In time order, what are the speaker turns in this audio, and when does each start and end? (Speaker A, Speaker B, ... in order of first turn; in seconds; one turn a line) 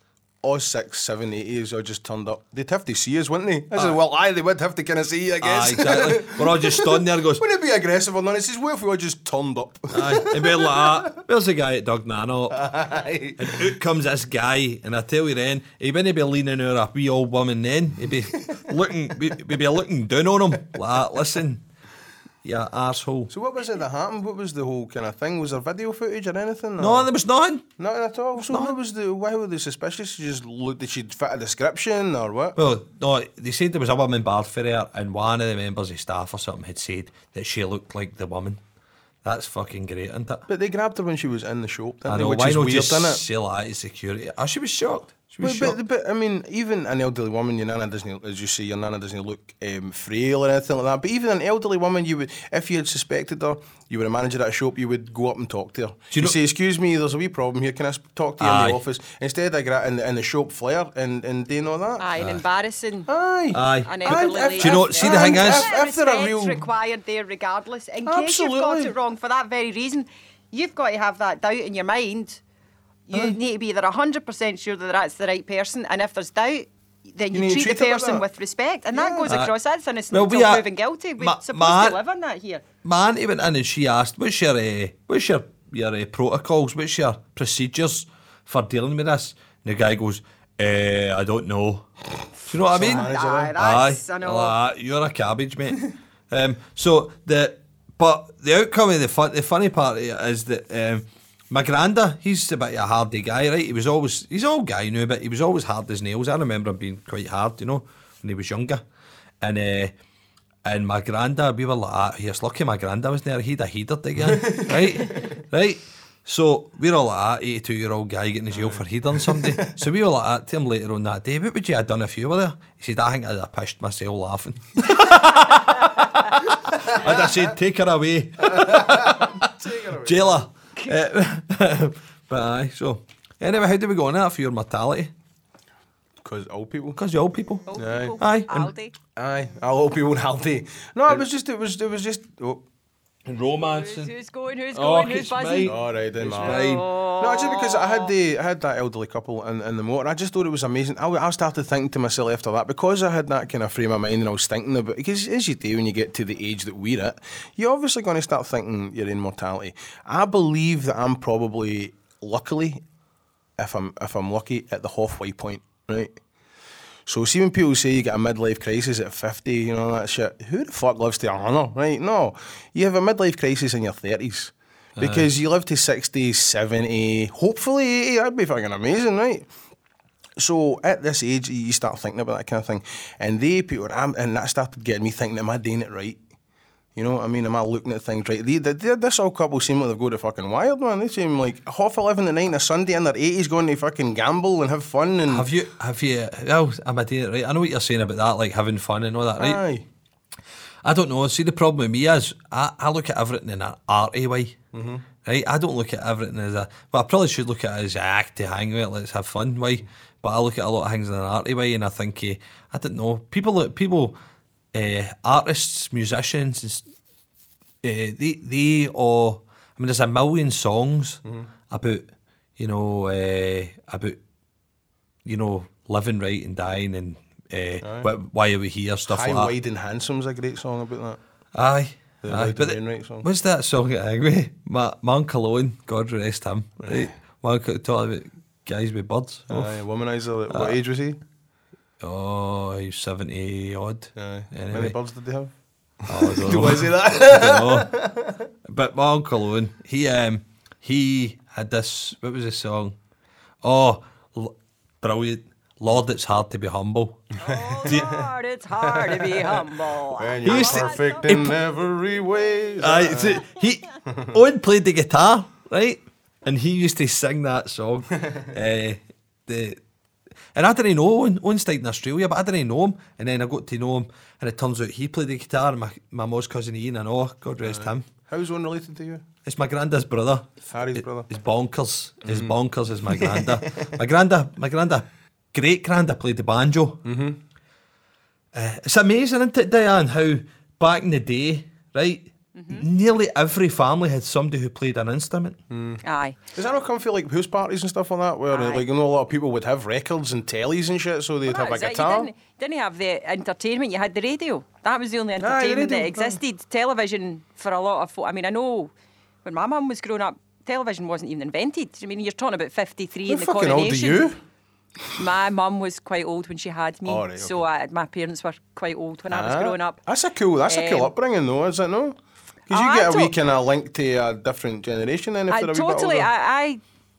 Speaker A: 0.4-11.2
Speaker B: 5.4-7.4
Speaker B: 9.9-12.7
Speaker A: 12.5-13.6
Speaker B: 13.4-21.6
Speaker B: 22.4-23.3
Speaker A: 23.3-27.1
Speaker B: 26.8-27.7
Speaker A: 27.8-32.6
Speaker B: 28.4-28.7
Speaker B: 32.5-38.6
Speaker B: 39.2-40.5
Speaker A: 40.5-43.2
Speaker B: 42.1-45.8
Speaker A: 45.4-62.1
Speaker B: 56.1-56.4
Speaker B: 58.4-58.8
Speaker C: 62.0-63.1
Speaker B: 62.2-62.4
Speaker A: 63.1-66.7
Speaker B: 63.5-65.7
Speaker C: 63.8-72.4
Speaker A: 68.0-68.9
Speaker C: 73.1-82.6
Speaker A: 77.3-78.2
Speaker A: 78.9-79.3
Speaker B: 79.3-79.5
Speaker B: 80.1-80.6
Speaker B: 81.2-82.0
Speaker B: 82.8-91.9
Speaker B: 92.4-108.8
Speaker A: 92.7-93.5
Speaker C: 92.8-94.5
Speaker B: 109.4-109.9
Speaker B: 110.6-135.1
Speaker A: 114.2-114.8
Speaker A: 118.5-119.7
Speaker A: 126.8-127.4
Speaker A: 128.4-130.4
Speaker A: 136.2-137.0
Speaker B: 137.0-138.7
Speaker C: 137.7-138.9
Speaker A: 137.7-138.2
Speaker A: 139.2-142.6
Speaker B: 143.2-144.1
Speaker C: 143.7-145.8
Speaker B: 144.7-146.9
Speaker A: 145.6-162.8
Speaker C: 146.3-148.1
Speaker A: 163.6-166.2
Speaker A: 167.1-179.5
Speaker B: 174.9-175.3
Speaker A: 180.4-186.2
Speaker A: 186.9-195.5
Speaker B: 195.3-199.6
Speaker A: 199.4-199.8
Speaker B: 200.8-204.6
Speaker A: 204.7-205.0
Speaker B: 205.2-214.2
Speaker B: 214.7-216.8
Speaker B: 217.8-224.2
Speaker A: 221.2-221.5
Speaker B: 225.2-229.5
Speaker A: 227.8-228.1
Speaker A: 229.1-231.2
Speaker B: 231.5-239.8
Speaker A: 232.2-233.3
Speaker A: 236.8-237.1
Speaker A: 239.5-241.2
Speaker B: 240.5-240.8
Speaker B: 242.0-244.9
Speaker A: 244.1-245.5
Speaker A: 246.0-248.4
Speaker B: 246.1-248.0
Speaker B: 248.6-252.9
Speaker B: 253.6-257.2
Speaker A: 257.4-263.4
Speaker C: 257.4-261.4
Speaker B: 260.4-261.6
Speaker B: 262.8-269.8
Speaker A: 264.1-264.3
Speaker B: 270.5-278.1
Speaker A: 277.6-279.2
Speaker B: 279.4-287.0
Speaker A: 280.6-281.3
Speaker A: 282.2-282.5
Speaker A: 283.1-283.9
Speaker A: 287.0-287.4
Speaker B: 288.5-295.6
Speaker C: 292.5-292.9
Speaker A: 295.7-296.0
Speaker C: 296.0-296.4
Speaker A: 296.5-302.3
Speaker C: 298.5-298.8
Speaker C: 301.5-308.9
Speaker A: 305.4-306.4
Speaker C: 309.4-314.3
Speaker A: 313.3-314.4
Speaker C: 315.1-320.0
Speaker A: 317.1-317.6
Speaker A: 319.3-322.2
Speaker C: 320.7-321.1
Speaker A: 322.7-326.3
Speaker C: 322.7-323.3
Speaker C: 325.5-326.8